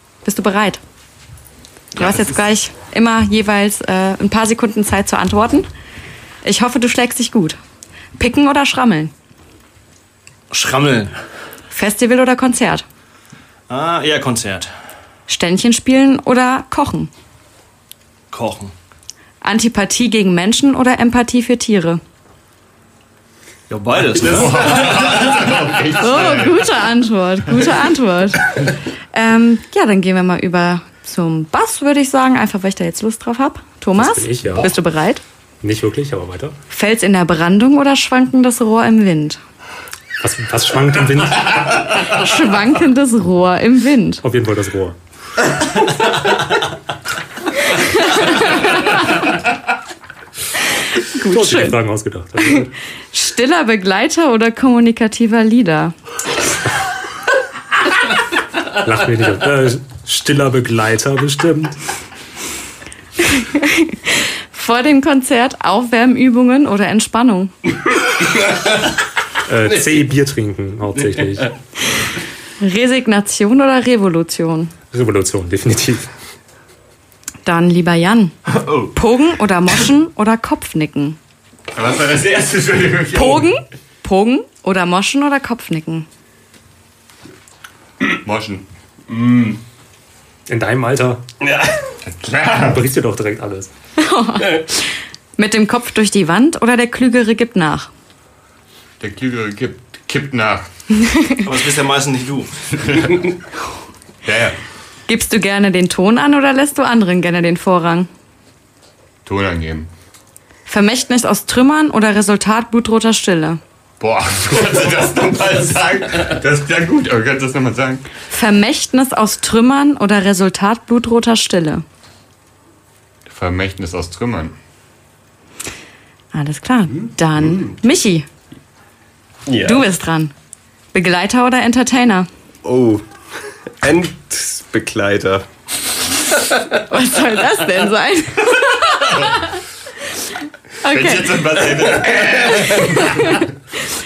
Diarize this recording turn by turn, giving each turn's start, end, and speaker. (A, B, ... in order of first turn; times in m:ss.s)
0:00.2-0:00.8 A
0:01.9-0:05.7 A
0:06.4-0:07.6 A
0:08.2-0:09.1 A
0:10.5-0:11.2 B
0:11.7-0:12.8 A
0:13.7-0:14.7 B
0:15.3-0:17.1 A
0:18.3-0:18.7 B
0:19.4-0:22.0 A
0:23.7-0:24.7 B
0:24.2-0:26.7 C
0:25.9-0:35.2 A
0:34.0-0:34.7 D
0:35.6-0:36.5 D
0:36.7-0:39.4 A
0:40.2-0:41.7 D
0:41.9-0:44.2 A
0:44.2-0:45.0 D
0:47.6-0:49.3 A
0:51.0-0:51.8 A
0:51.3-0:52.7 D
0:52.4-0:56.0 A
0:58.8-1:01.7 D
1:03.2-1:07.5 A
1:09.5-1:11.5 D
1:12.6-1:14.8 A
1:14.9-1:16.1 D
1:17.4-1:21.2 A
1:21.7-1:23.5 C
1:23.1-1:26.1 A
1:28.0-1:28.7 C
1:29.1-1:29.6 E
1:30.5-1:31.2 D
1:32.0-1:32.8 C
1:32.6-1:33.7 D
1:34.0-1:37.9 A
1:39.0-1:40.7 C
1:41.0-1:41.4 A
1:41.4-1:42.8 B
1:42.8-1:43.4 C
1:44.3-1:44.5 C
1:45.1-1:48.1 A
1:49.2-1:49.9 C
1:50.7-1:53.6 A
1:54.0-1:58.1 C
1:58.3-2:01.8 A
2:03.3-2:04.6 C
2:06.3-2:08.3 A
2:09.5-2:09.9 E
2:09.6-2:10.3 A
2:10.9-2:12.3 A
2:12.6-2:13.0 E
2:13.8-2:15.4 E
2:16.6-2:19.6 A
2:19.0-2:19.5 C
2:20.8-2:21.7 A
2:20.8-2:23.5 C
2:22.8-2:23.5 A